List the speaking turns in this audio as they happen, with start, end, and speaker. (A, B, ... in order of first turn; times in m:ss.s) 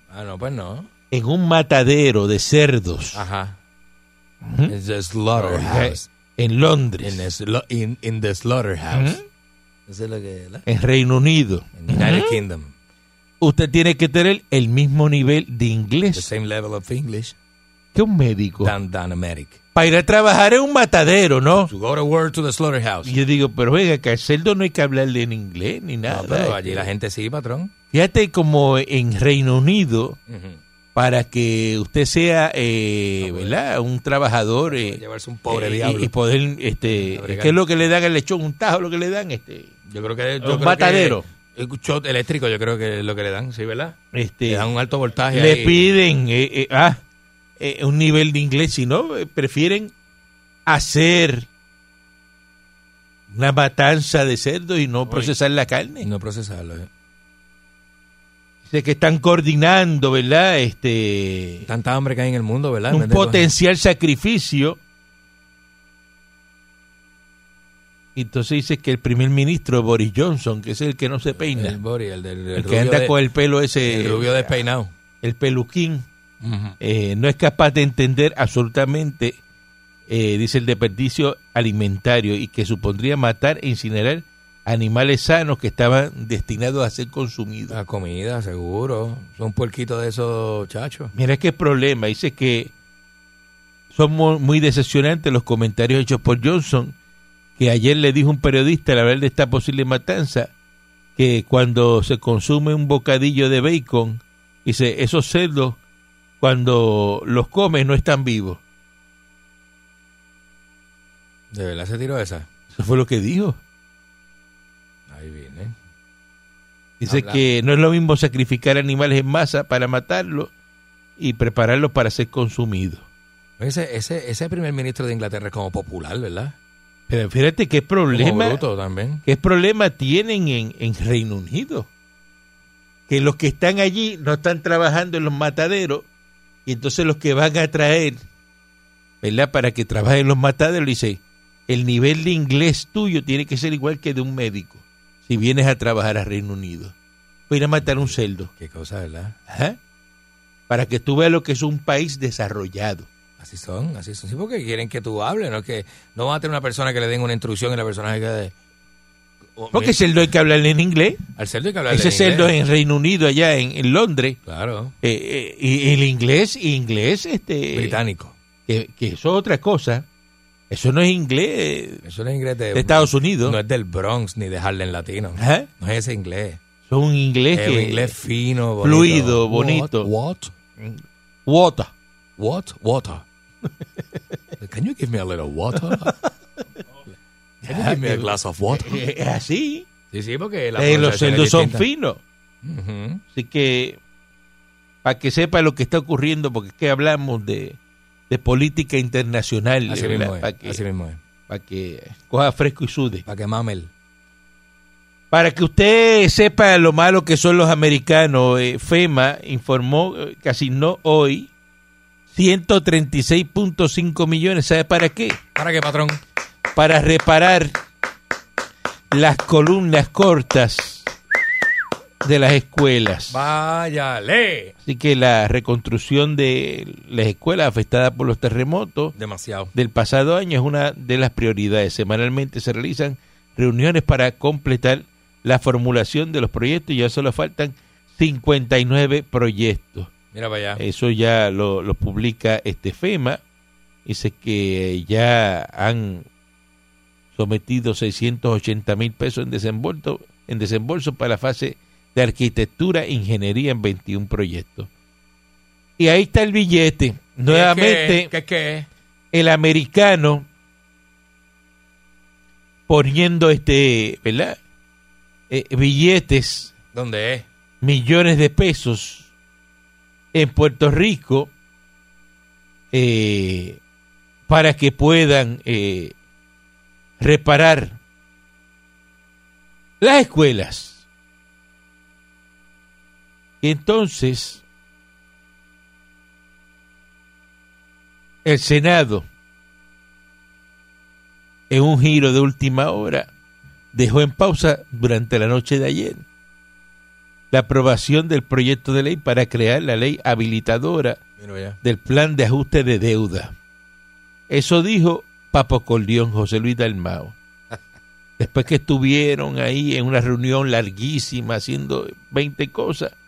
0:00.1-0:00.9 A
0:01.1-0:03.2 B
0:03.1-0:03.6 A
0:04.4-0:04.7 B
0:04.7-0:06.1 A
0:05.4-0:07.2 B
0:07.0-0:09.2 A
0:08.9-0:09.2 B
0:09.9-0:10.7 A
0:10.7-0:12.4 B
0:11.8-0:12.7 A
0:13.4-0:16.3 B
0:16.1-0:17.4 A
0:17.9-0:18.7 B
0:18.6-0:19.6 A
0:19.8-0:21.7 B
0:21.6-0:23.2 A
0:23.0-0:26.9 B
0:26.1-0:27.7 A
0:27.9-0:30.2 B
0:30.3-0:30.6 A
0:31.0-0:39.7 B
0:33.2-0:33.6 A
0:34.7-0:36.1 A
0:36.8-0:37.6 A
0:39.9-0:45.9 A
0:40.4-0:41.2 B
0:44.1-0:44.7 B
0:45.3-0:47.0 B
0:47.6-0:49.9 B
0:50.7-0:51.5 B
0:53.3-0:56.1 B
0:55.1-0:55.3 A
0:56.0-0:56.9 A
0:58.6-1:01.7 B
1:01.6-1:03.5 A
1:02.9-1:04.8 B
1:08.2-1:11.8 B
1:11.6-1:13.2 A
1:12.6-1:14.5 B
1:13.8-1:14.9 A
1:15.2-1:16.1 B
1:16.4-1:16.8 A
1:16.8-1:19.4 B
1:20.1-1:27.8 B
1:27.7-1:31.1 A
1:31.2-1:32.7 B
1:33.9-1:37.0 B
1:37.6-1:40.5 B
1:41.2-1:45.8 B
1:46.4-1:48.6 B
1:51.5-1:52.5 A
1:52.7-1:53.6 B
1:55.1-1:55.8 A
1:57.0-2:00.5 B
1:57.1-1:57.4 A
2:01.2-2:03.1 B
2:03.6-2:06.6 A
2:07.1-2:08.6 B
2:08.1-2:09.2 A
2:09.2-2:11.9 B
2:13.1-2:16.1 B
2:16.7-2:18.2 B
2:19.2-2:26.9 B
2:27.5-2:28.5 B
2:28.0-2:29.4 A
2:29.5-2:29.8 B
2:30.7-2:33.1 B
2:33.4-2:38.5 A
2:39.6-2:40.0 A
2:39.7-2:41.2 B
2:41.4-2:42.5 A
2:41.9-2:44.4 B
2:44.4-2:45.0 A
2:45.0-2:48.0 B
2:47.7-2:48.4 A
2:48.7-2:50.1 B
2:50.7-2:52.0 B
2:52.0-2:56.6 A
2:52.7-2:53.6 B
2:55.4-2:55.7 B
2:56.9-2:58.2 B
2:57.5-3:00.6 A
2:58.8-3:00.1 B
3:00.8-3:01.9 B
3:02.4-3:03.2 A
3:04.6-3:06.2 A
3:05.9-3:06.3 B
3:07.6-3:09.0 A
3:07.7-3:09.9 B
3:10.1-3:11.9 A
3:10.8-3:12.2 B
3:12.6-3:13.2 A
3:13.3-3:14.0 B
3:15.0-3:17.8 B
3:18.3-3:20.8 B
3:19.9-3:21.2 A
3:21.5-3:23.2 B
3:23.3-3:23.9 A
3:25.3-3:31.5 B
3:32.3-3:35.4 B
3:35.6-3:36.2 A
3:36.8-3:37.8 B
3:39.1-3:41.1 B
3:42.2-3:43.4 B
3:43.3-3:44.7 A
3:44.8-3:49.1 B
3:49.2-3:49.7 A
3:49.7-4:00.1 B
4:00.3-4:00.8 A
4:00.8-4:03.4 B
4:04.1-4:06.3 B
4:07.3-4:14.9 B
4:16.0-4:18.3 B
4:17.5-4:18.9 A
4:19.3-4:20.5 B
4:22.9-4:24.6 B
4:25.5-4:26.7 B
4:26.9-4:27.5 A
4:27.8-4:29.3 B
4:30.3-4:31.5 B
4:32.9-4:33.8 B
4:34.5-4:36.1 B
4:37.2-4:38.0 B
4:40.0-4:41.0 B
4:43.6-4:44.6 B
4:48.4-4:49.3 B
4:51.7-4:53.3 B
4:53.9-4:56.2 B
4:57.5-5:01.2 B
5:01.4-5:01.8 A
5:01.8-5:03.5 B
5:04.5-5:07.4 B
5:08.4-5:13.1 B